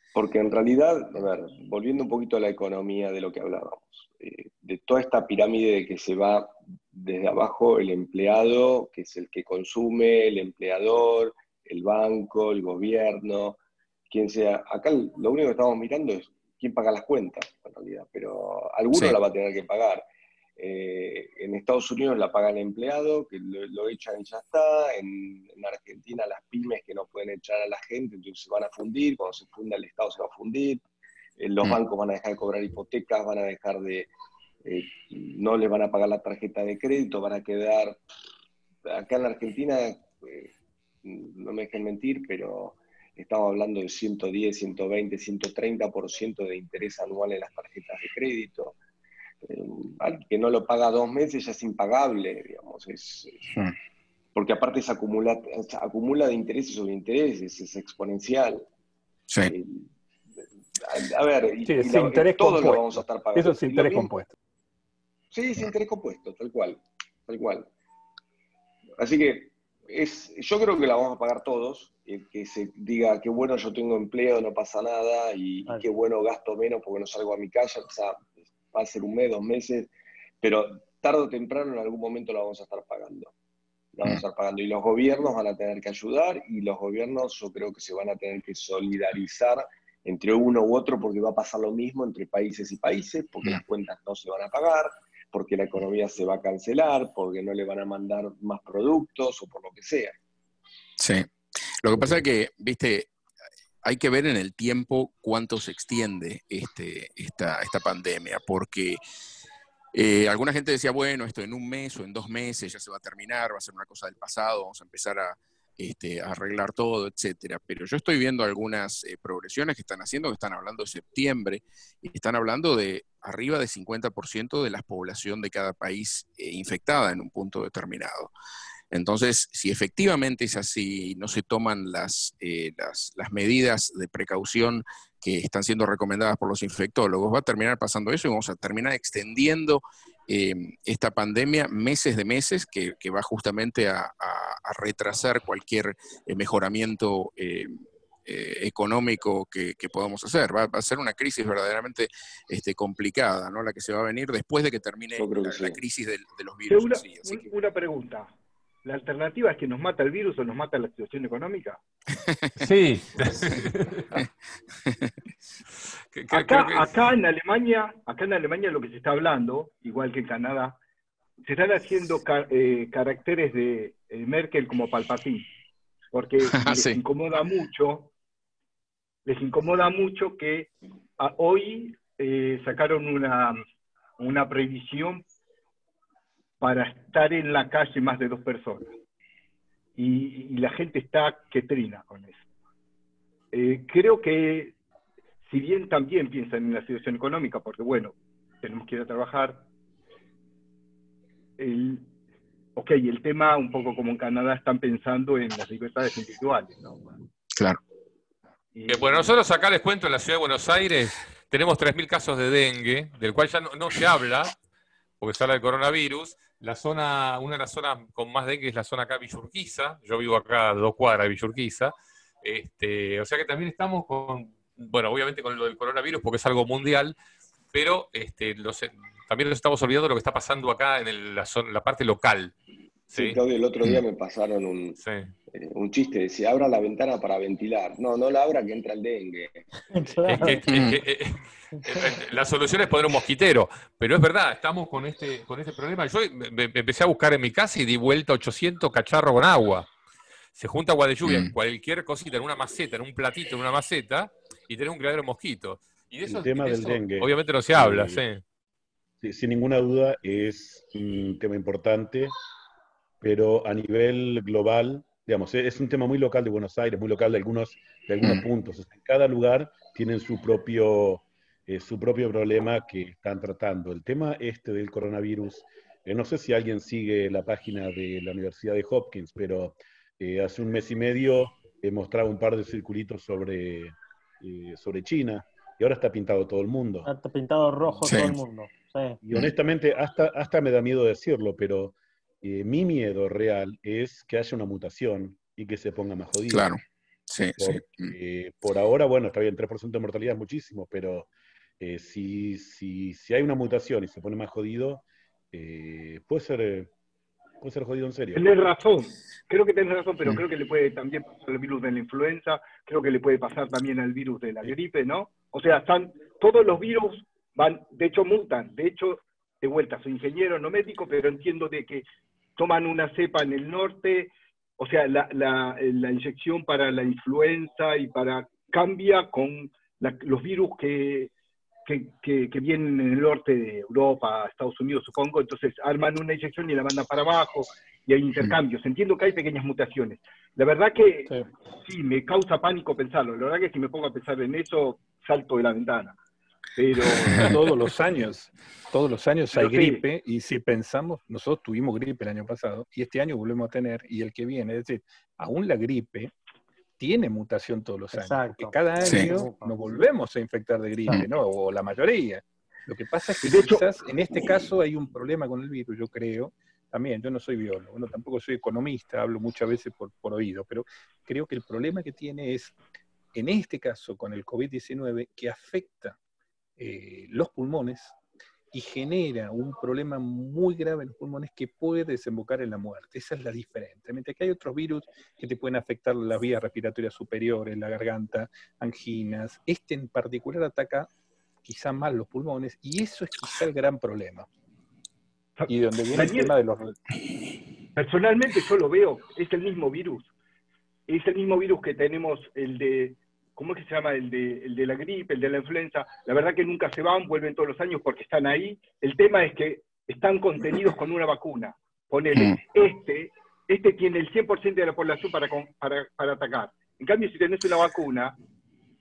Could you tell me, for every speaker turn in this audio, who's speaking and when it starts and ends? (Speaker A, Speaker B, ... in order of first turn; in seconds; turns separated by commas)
Speaker A: 0.1-13.6, Speaker A: 14.1-20.0, Speaker B: 18.9-19.2, Speaker A: 20.6-30.8, Speaker A: 31.4-34.1, Speaker A: 34.6-38.0, Speaker A: 38.9-40.5, Speaker A: 41.0-48.7, Speaker A: 49.4-53.5, Speaker A: 54.3-58.7, Speaker B: 59.3-59.5, Speaker A: 59.4-59.9, Speaker A: 60.8-64.1, Speaker C: 61.6-64.3, Speaker A: 65.3-67.7, Speaker A: 69.0-79.9, Speaker A: 80.4-83.3, Speaker A: 83.9-100.2, Speaker B: 101.0-103.1, Speaker B: 103.8-109.0, Speaker B: 109.9-128.3, Speaker B: 128.9-147.7, Speaker B: 148.2-157.5, Speaker A: 155.2-155.8, Speaker D: 156.7-158.3, Speaker D: 158.8-161.8, Speaker B: 162.1-162.6, Speaker E: 162.6-164.2, Speaker B: 164.8-165.1, Speaker E: 166.1-167.0, Speaker D: 166.3-170.8, Speaker D: 171.4-175.5, Speaker D: 176.1-178.1, Speaker B: 176.5-177.0, Speaker D: 179.2-183.6, Speaker D: 184.2-185.2, Speaker D: 186.6-188.9, Speaker D: 189.9-192.4, Speaker D: 193.5-194.7, Speaker D: 195.4-199.7, Speaker D: 201.6-202.1, Speaker D: 202.8-206.8, Speaker B: 207.6-207.8, Speaker D: 208.7-209.3, Speaker E: 208.9-214.6, Speaker E: 215.2-227.2, Speaker E: 227.7-232.5, Speaker E: 233.1-233.4, Speaker A: 233.1-235.0, Speaker E: 235.0-235.3, Speaker A: 235.5-239.7, Speaker F: 239.9-240.6, Speaker E: 240.2-249.9, Speaker B: 240.6-241.0, Speaker F: 241.8-242.1, Speaker E: 250.5-258.4, Speaker B: 251.2-251.5, Speaker G: 256.2-258.2, Speaker G: 259.2-262.3, Speaker G: 263.2-287.1, Speaker F: 287.1-289.2, Speaker B: 288.0-288.4, Speaker G: 289.2-296.7, Speaker B: 296.5-298.1, Speaker G: 297.6-306.9, Speaker G: 307.6-308.5, Speaker D: 308.3-322.0, Speaker D: 322.6-331.3, Speaker D: 331.9-346.2, Speaker D: 346.8-347.6, Speaker C: 347.4-356.3, Speaker D: 349.5-350.0, Speaker C: 357.0-372.7, Speaker F: 358.1-359.7, Speaker B: 359.0-359.3, Speaker D: 363.4-363.8, Speaker C: 373.3-376.2, Speaker C: 376.8-378.1, Speaker C: 378.7-391.1, Speaker C: 391.6-394.5, Speaker D: 395.6-396.5, Speaker C: 395.7-397.0, Speaker D: 397.9-400.3, Speaker D: 401.1-418.4